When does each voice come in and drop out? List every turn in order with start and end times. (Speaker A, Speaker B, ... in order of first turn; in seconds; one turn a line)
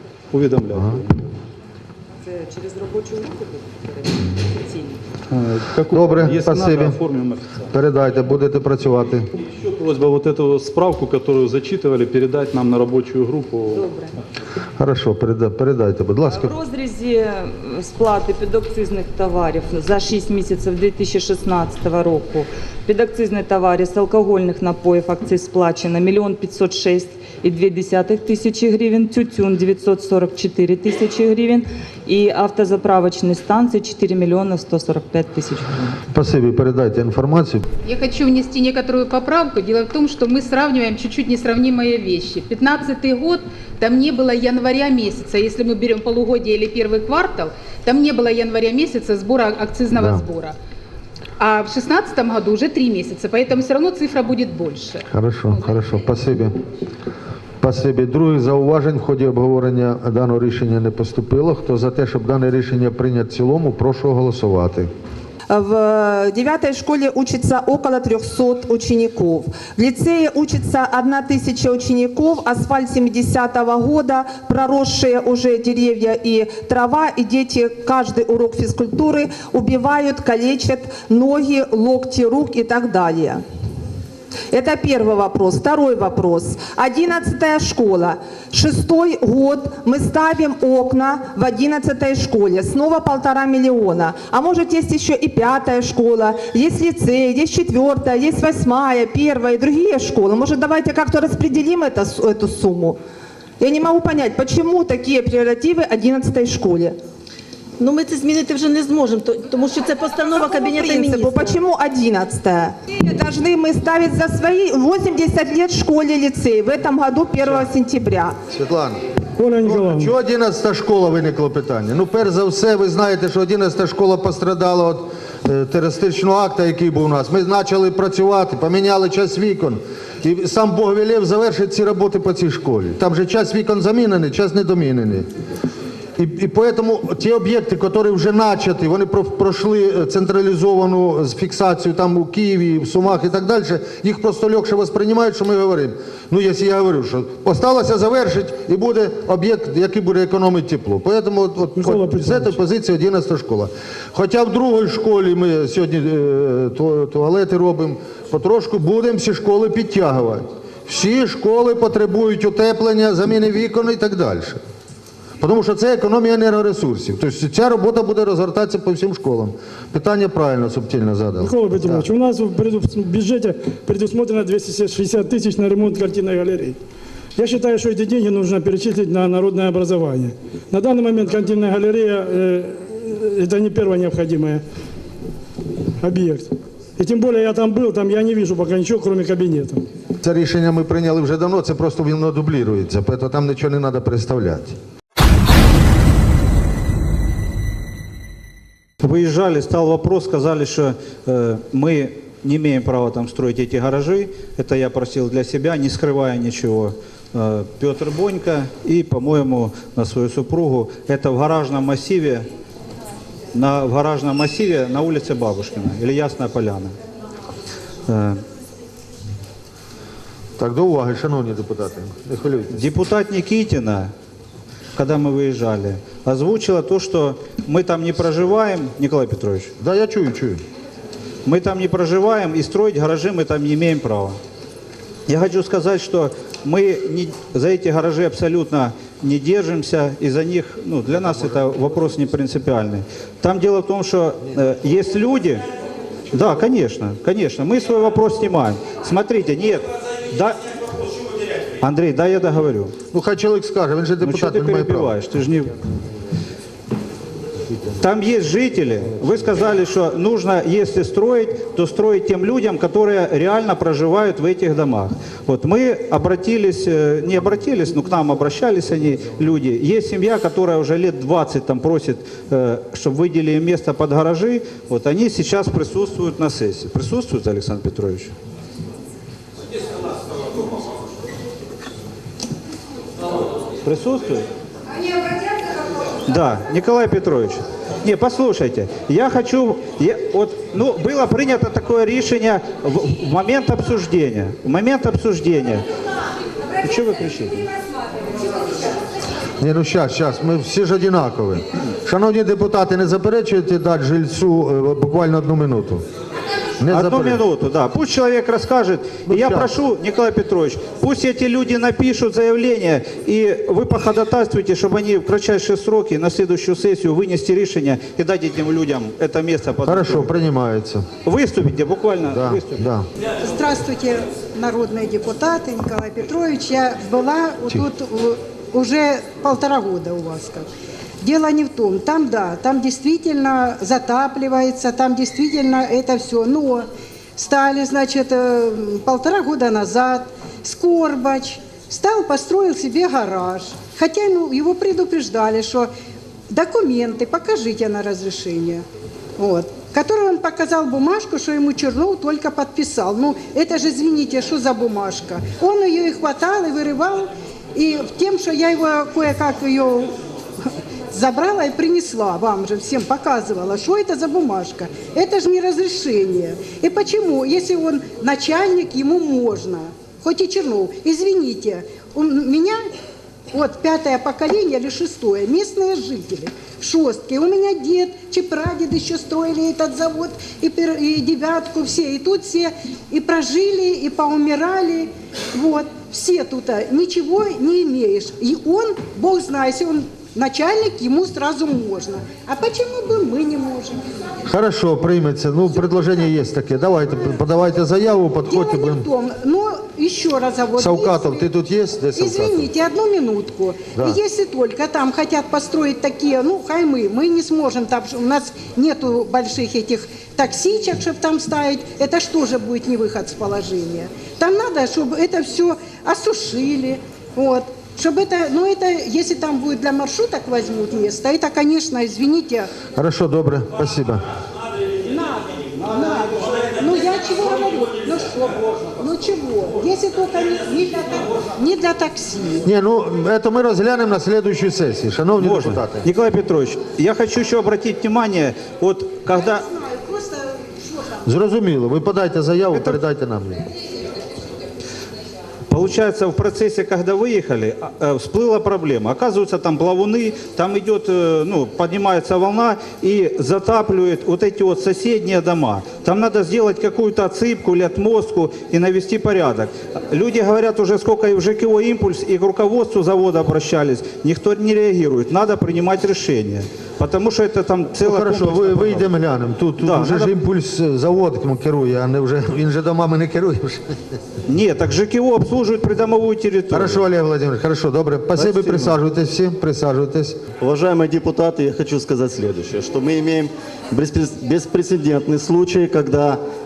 Speaker A: 0.3-1.2
Speaker B: 0.7-1.0
Speaker C: 2.2-5.0
Speaker A: 5.3-7.7
Speaker B: 5.9-7.0
Speaker B: 7.7-9.3
Speaker A: 9.5-13.8
Speaker C: 13.7-14.1
Speaker B: 14.8-16.6
Speaker C: 16.2-36.0
Speaker B: 36.1-37.7
Speaker D: 37.9-50.5
Speaker B: 49.9-50.2
Speaker D: 51.4-55.8
Speaker B: 55.1-56.5
Speaker B: 57.6-64.9
Speaker E: 65.5-83.4
Speaker E: 84.5-103.0
Speaker E: 103.6-107.0
Speaker F: 107.8-110.8
Speaker E: 110.7-118.4
Speaker B: 117.4-117.7
Speaker B: 118.5-119.0
Speaker G: 119.4-120.1
Speaker B: 119.6-135.3
Speaker B: 136.2-164.6
Speaker G: 151.8-152.5
Speaker B: 165.4-172.1
Speaker G: 171.4-176.8
Speaker G: 177.4-184.6
Speaker G: 186.0-189.8
Speaker B: 190.2-194.8
Speaker H: 199.0-212.5
Speaker H: 213.5-216.9
Speaker H: 218.1-218.4
Speaker B: 220.6-222.8
Speaker H: 222.7-224.1
Speaker H: 225.0-229.7
Speaker B: 229.8-230.6
Speaker H: 231.4-234.4
Speaker H: 235.3-245.7
Speaker H: 246.3-250.6
Speaker H: 251.8-252.9
Speaker B: 253.1-255.2
Speaker H: 254.2-255.7
Speaker H: 258.0-278.3
Speaker H: 283.9-284.4
Speaker H: 286.3-295.8
Speaker H: 296.8-297.7
Speaker B: 299.6-306.0
Speaker B: 306.8-307.4
Speaker H: 306.9-320.3
Speaker B: 309.3-309.8
Speaker B: 319.8-321.1
Speaker H: 321.2-322.8
Speaker B: 322.3-323.1
Speaker I: 323.4-330.7
Speaker I: 331.2-345.9
Speaker I: 346.5-348.8
Speaker I: 349.4-372.8
Speaker I: 373.5-394.1
Speaker B: 394.5-399.1
Speaker I: 398.4-401.5
Speaker B: 400.8-402.7
Speaker I: 402.2-422.7
Speaker B: 422.9-424.2
Speaker I: 425.1-432.7
Speaker B: 432.6-436.1
Speaker H: 435.4-439.7
Speaker I: 439.4-441.2
Speaker B: 441.2-443.6
Speaker H: 442.7-443.0
Speaker H: 445.7-469.1
Speaker B: 468.0-473.9
Speaker H: 469.8-470.3
Speaker H: 474.5-477.0
Speaker B: 476.7-480.4
Speaker H: 478.4-478.9
Speaker J: 480.6-486.4